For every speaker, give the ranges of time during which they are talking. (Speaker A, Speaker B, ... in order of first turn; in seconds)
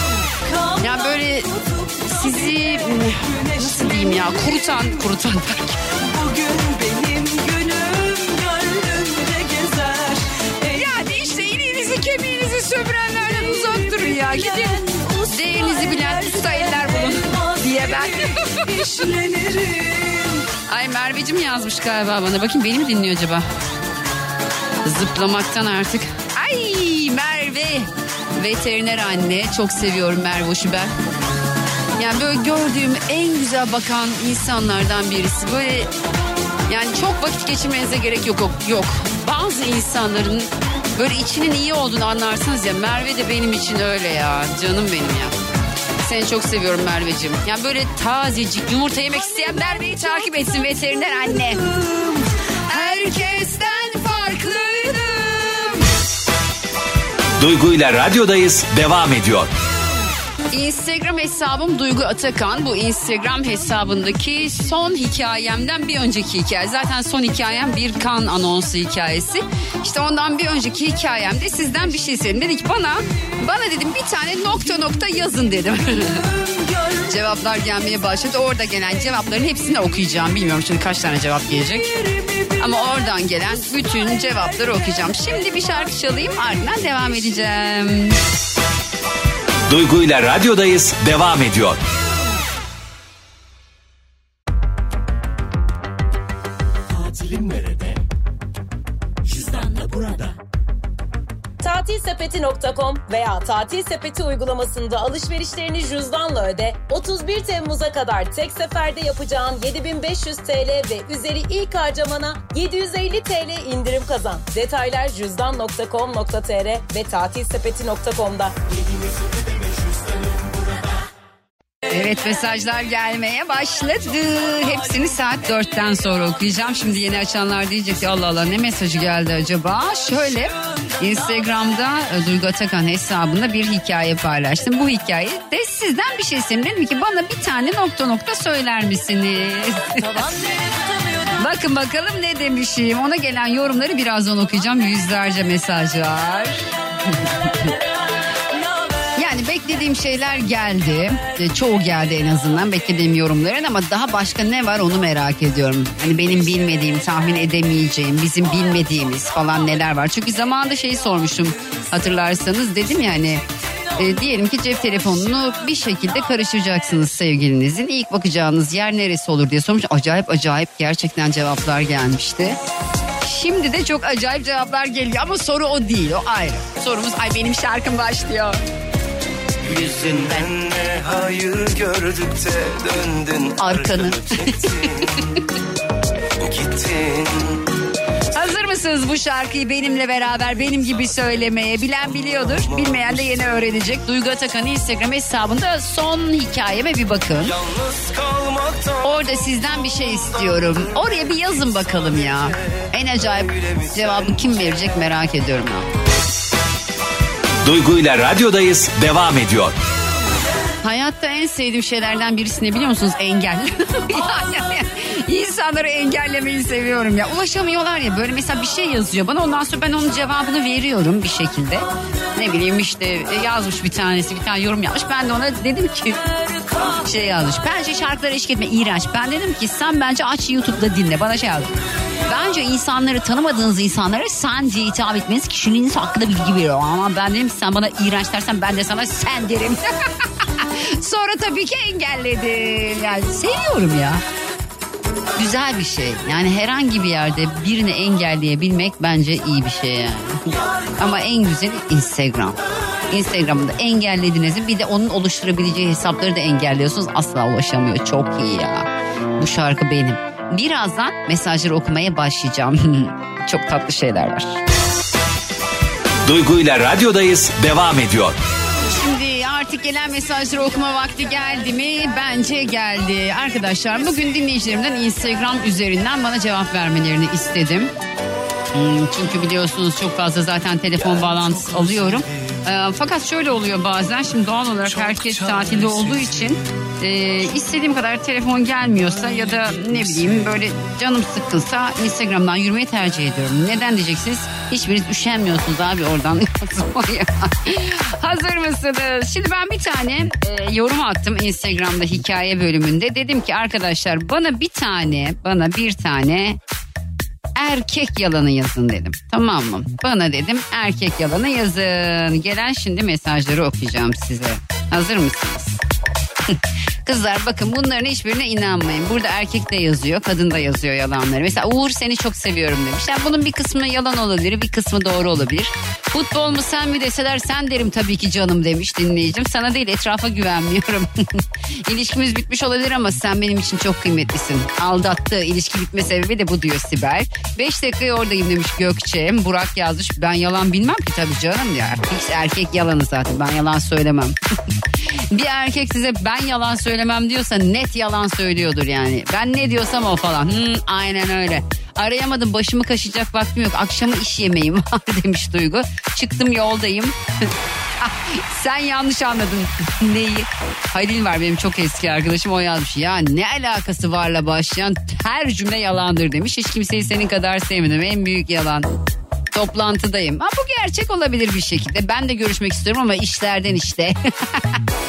Speaker A: 0.5-4.7, 6.0-11.1, 13.5-20.4, 76.4-77.0, 81.9-82.5, 140.0-141.4
Speaker B: 0.8-1.5, 2.0-5.8, 10.7-18.7, 20.7-23.4, 24.8-30.9, 32.0-35.9, 36.7-45.3, 46.0-51.7, 52.7-55.8, 60.5-76.3, 77.1-81.9, 82.6-88.2, 121.9-140.0, 141.4-147.7, 149.2-163.4, 164.0-172.6, 173.2-178.6, 179.7-180.5, 183.6-184.9, 188.3-197.6, 199.0-205.8, 210.8-226.2, 227.0-231.7, 232.3-239.9, 240.6-244.2, 245.4-250.5, 251.0-252.6, 253.1-258.9, 259.4-264.6, 268.9-277.9, 278.7-306.6, 307.6-315.8, 316.5-344.3, 345.3-357.1, 358.0-368.9, 369.5-374.8
Speaker C: 57.4-59.5, 89.7-91.8, 207.6-209.8, 266.2-268.4
Speaker D: 101.6-118.5
Speaker E: 179.8-184.7, 186.4-187.6, 197.7-198.9